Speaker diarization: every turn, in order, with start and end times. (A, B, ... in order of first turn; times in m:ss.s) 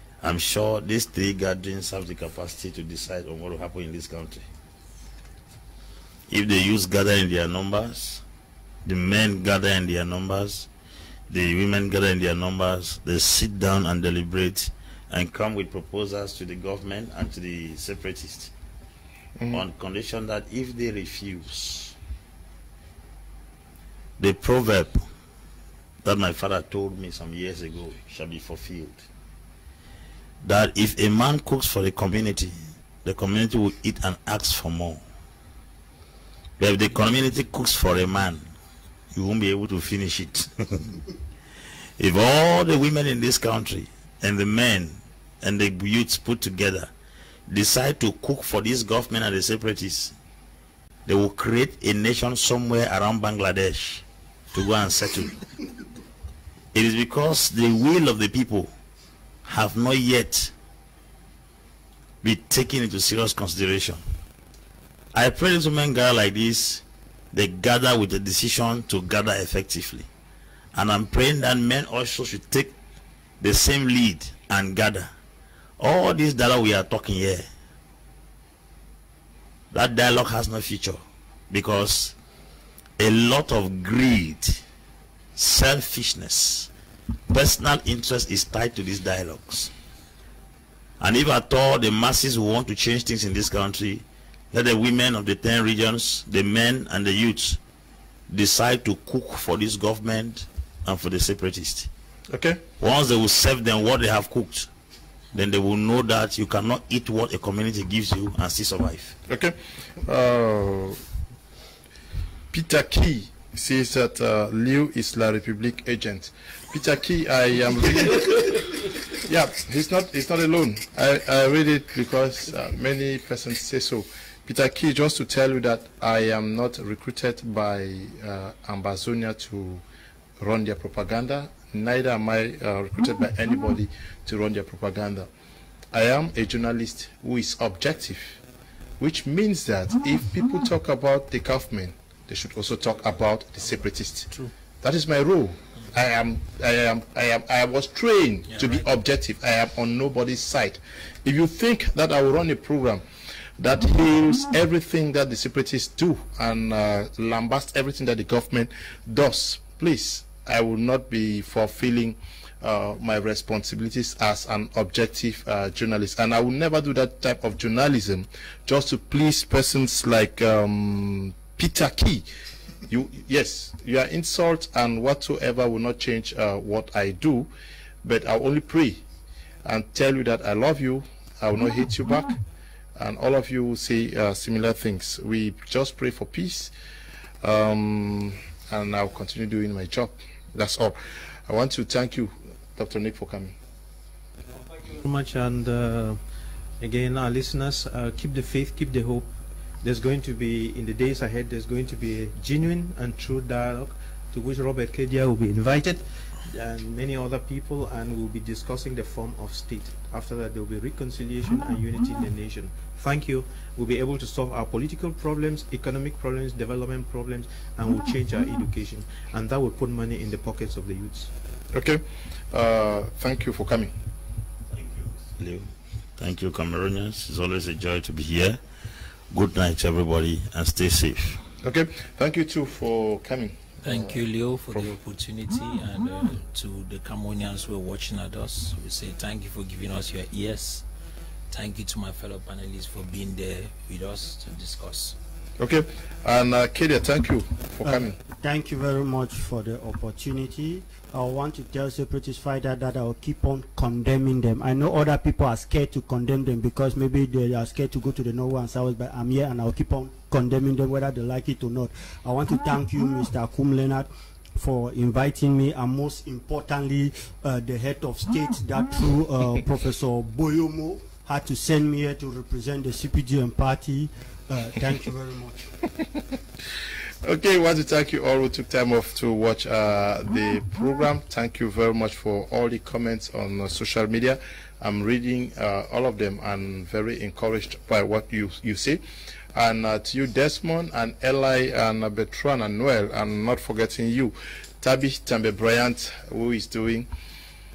0:00.2-0:04.4 A
0:06.3-0:08.2 A
0:08.8-0:10.7 A
0:11.3-0:18.5 A
0:19.4-0:19.6 B
0:19.5-0:21.9 A
0:24.2-0:25.0 A
0:26.0-0:29.0 A
0:30.4-0:35.0 A
0:36.6-0:38.4 A
0:39.1-0:41.0 A
0:42.0-0:46.9 A
0:47.5-0:50.1 A
0:51.0-0:55.4 A
0:56.7-0:58.7 A
0:59.4-1:00.5 A
1:02.2-1:04.0 A
1:05.1-1:10.1 A
1:10.7-1:12.7 A
1:13.4-1:15.1 A
1:15.8-1:17.4 A
1:19.7-1:22.1 A
1:23.0-1:24.6 A
1:25.4-1:26.7 A
1:27.3-1:29.7 A
1:31.0-1:37.6 A
1:38.3-1:41.9 A
1:42.3-1:42.6 B
1:42.8-1:44.7 A
1:45.3-1:49.2 A
1:49.3-1:51.0 B
1:52.5-2:09.8 B
2:10.4-2:15.3 B
2:15.9-2:18.4 B
2:19.0-2:33.0 B
2:28.5-2:28.8 C
2:33.6-2:52.2 B
2:52.9-2:57.5 B
2:58.0-2:59.0 B
2:59.6-3:02.4 B
3:03.0-3:06.7 B
3:07.4-3:13.5 B
3:14.7-3:16.2 D
3:16.8-3:19.3 D
3:19.8-3:41.3 D
3:41.7-3:43.9 B
3:44.7-3:48.6 A
3:49.3-3:51.4 A
3:51.6-3:54.9 B
3:53.8-4:00.8 C
4:01.5-4:05.2 C
4:05.6-4:08.1 B
4:07.8-4:35.7 E
4:37.2-4:49.0 B
4:49.5-4:57.1 B